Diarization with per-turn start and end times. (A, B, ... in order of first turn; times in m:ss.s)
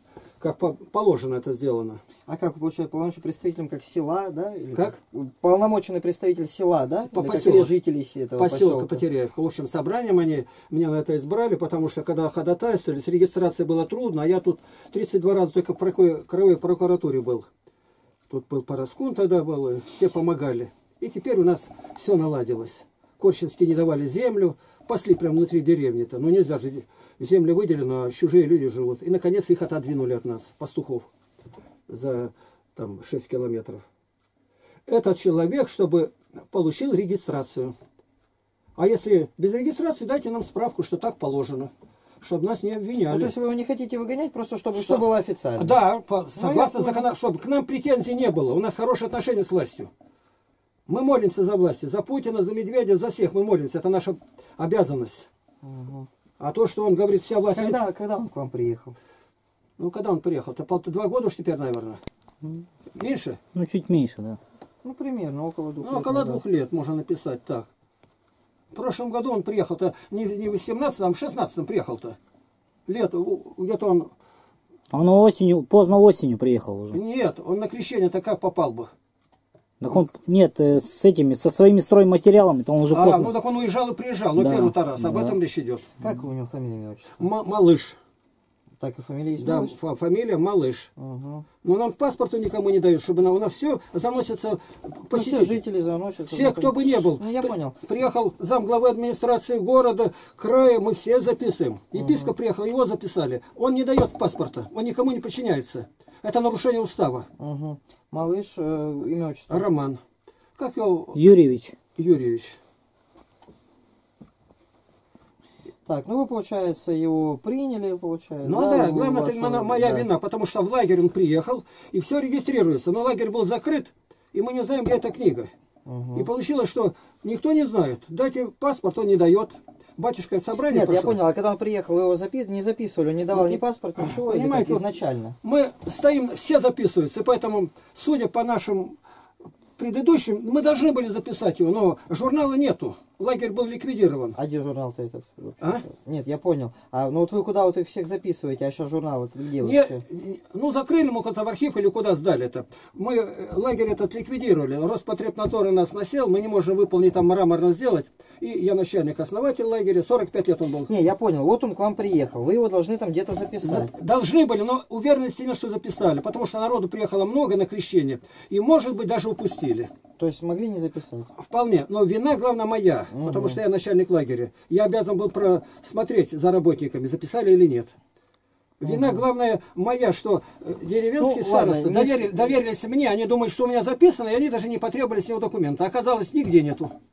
0:00.4-0:02.0 A
0:02.3-0:09.0 B
0:07.1-0:07.8 A
0:08.4-0:17.5 A
0:18.3-0:31.1 A
0:31.9-0:33.9 A
0:34.9-0:37.7 A
0:38.8-0:43.3 A
0:43.1-0:45.8 B
0:44.7-0:49.9 A
0:46.4-0:47.1 B
0:50.9-0:55.3 A
0:55.6-0:56.1 B
0:56.4-0:57.8 A
0:57.5-0:59.0 B
0:59.8-1:02.0 A
1:02.9-1:03.4 A
1:03.6-1:04.4 C
1:04.8-1:06.4 B
1:05.8-1:07.7 A
1:08.7-1:12.2 A
1:12.9-1:14.1 A
1:14.9-1:17.0 C
1:16.9-1:18.9 A
1:19.8-1:23.4 C
1:22.9-1:25.8 A
1:24.4-1:25.4 C
1:25.0-1:25.4 B
1:26.0-1:27.2 B
1:27.2-1:28.0 A
1:28.8-1:29.8 B
1:29.4-1:30.9 A
1:31.0-1:31.5 B
1:31.6-1:35.6 A
1:35.1-1:37.8 B
1:36.3-1:47.3 A
1:42.0-1:42.3 B
1:47.4-1:49.7 B
1:49.5-1:50.0 A
1:50.6-1:51.2 A
1:51.2-1:51.8 C
1:52.0-1:52.6 A
1:55.8-2:00.1 B
1:58.4-2:05.5 A
2:05.9-2:06.3 B
2:06.2-2:11.2 A
2:10.7-2:15.4 B
2:13.3-2:14.9 A
2:15.4-2:19.0 A
2:19.8-2:24.4 A
2:24.4-2:30.0 B
2:29.6-2:40.9 A
2:40.9-2:43.9 B
2:43.6-2:49.9 A
2:50.2-2:51.3 B
2:51.3-2:58.0 A
2:53.1-2:53.6 B
2:58.8-3:06.9 A
2:58.8-2:59.2 B
3:01.2-3:02.6 B